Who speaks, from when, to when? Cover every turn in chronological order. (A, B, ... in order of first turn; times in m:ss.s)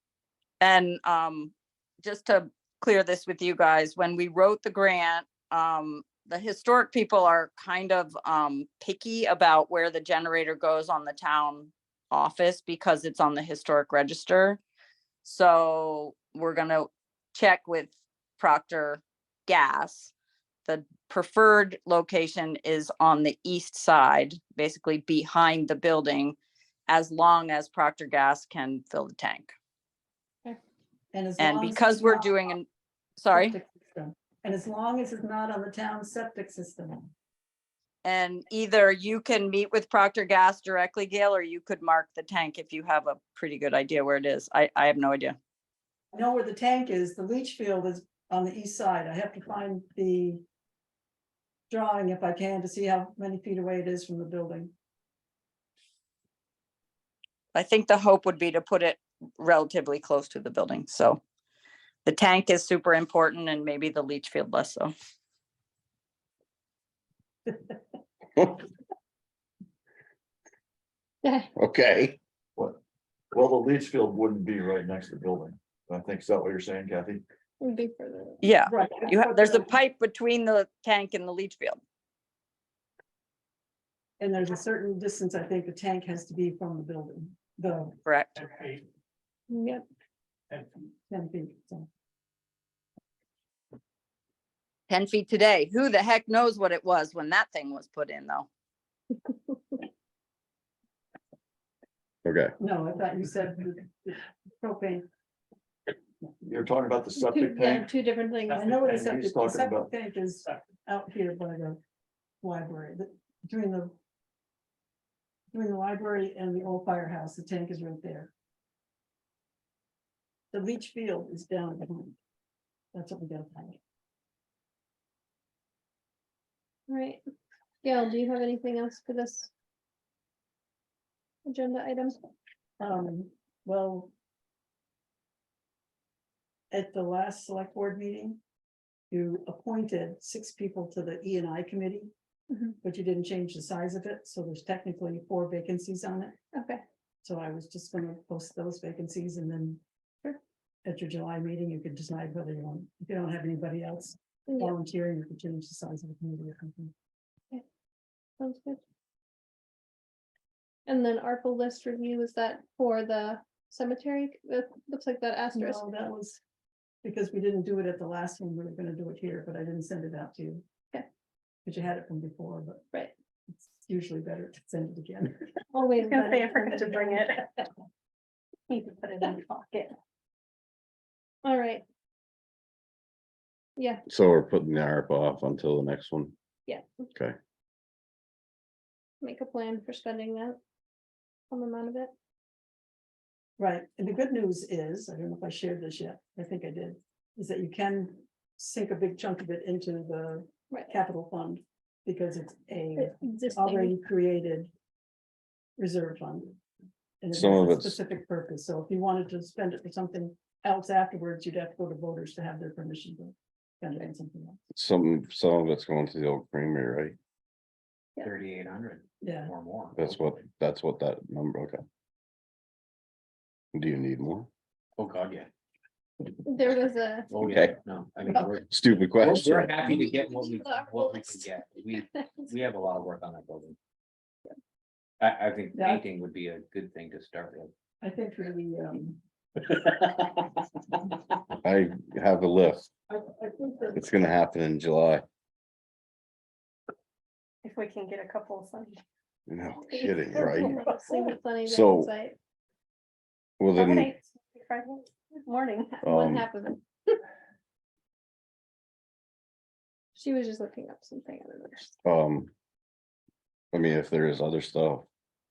0:00.6-0:14.6 A
0:15.2-0:20.1 A
0:20.6-0:26.4 A
0:26.9-0:29.6 A
0:31.1-0:32.3 B
0:31.4-0:33.6 A
0:33.3-0:37.1 B
0:38.0-0:45.4 A
0:46.1-0:50.4 B
0:51.7-0:54.7 B
0:57.5-1:01.2 A
1:02.0-1:04.9 A
1:11.2-1:11.5 C
1:11.6-1:12.2 D
1:13.3-1:17.2 E
1:17.6-1:18.4 C
1:18.4-1:21.8 A
1:18.7-1:19.7 B
1:24.2-1:28.0 B
1:28.1-1:28.5 A
1:29.5-1:29.8 C
1:31.1-1:31.9 B
1:34.9-1:38.5 A
1:39.3-1:39.8 C
1:42.2-1:42.5 D
1:42.6-1:45.1 B
1:46.5-1:47.9 E
1:47.2-1:48.6 C
1:48.5-1:51.8 B
1:48.8-1:49.9 E
1:52.4-1:54.0 B
1:55.5-1:58.3 B
2:00.5-2:02.2 B
2:02.9-2:03.8 B
2:06.9-2:07.2 C
2:07.8-2:09.5 C
2:11.4-2:12.2 C
2:12.8-2:14.1 B
2:16.7-2:18.4 B
2:19.1-2:22.1 B
2:22.5-2:22.8 C
2:22.8-2:26.4 B
2:26.5-2:26.8 C
2:27.2-2:29.8 B
2:30.8-2:36.9 B
2:34.5-2:34.7 C
2:38.4-2:38.8 C
2:40.9-2:45.9 C
2:45.5-2:46.4 B
2:47.0-2:50.6 B
2:51.6-2:52.8 B
2:53.6-2:57.7 B
2:55.7-2:56.3 C
2:56.0-2:57.4 F
2:58.7-2:59.9 F
3:01.4-3:01.8 C
3:03.8-3:04.0 C
3:04.1-3:06.3 D
3:06.7-3:07.0 C
3:09.2-3:10.6 C
3:11.5-3:12.1 C
3:13.6-3:24.7 B
3:23.0-3:24.0 C
3:25.8-3:26.6 B
3:27.2-3:34.6 B
3:27.3-3:28.0 D
3:34.7-3:37.2 D
3:38.2-3:40.1 G
3:39.2-3:39.5 B
3:40.0-3:41.8 D
3:43.7-3:44.5 D
3:45.0-3:45.5 G
3:46.4-3:47.3 C
3:47.3-3:53.8 G
3:47.4-3:47.7 D
3:48.7-3:49.9 D
3:49.8-3:52.5 C
3:55.2-3:57.7 G
3:55.8-3:56.0 B
3:58.0-3:59.2 B
4:01.6-4:02.9 D
4:03.1-4:04.1 B
4:04.0-4:05.2 D
4:07.6-4:09.0 F
4:09.5-4:10.8 D
4:09.8-4:12.4 C
4:10.9-4:11.3 F
4:11.6-4:12.1 D
4:13.6-4:14.1 D
4:13.8-4:15.9 F
4:15.8-4:17.2 C
4:16.0-4:16.5 D
4:20.2-4:22.0 C
4:22.0-4:22.5 D
4:23.7-4:25.1 D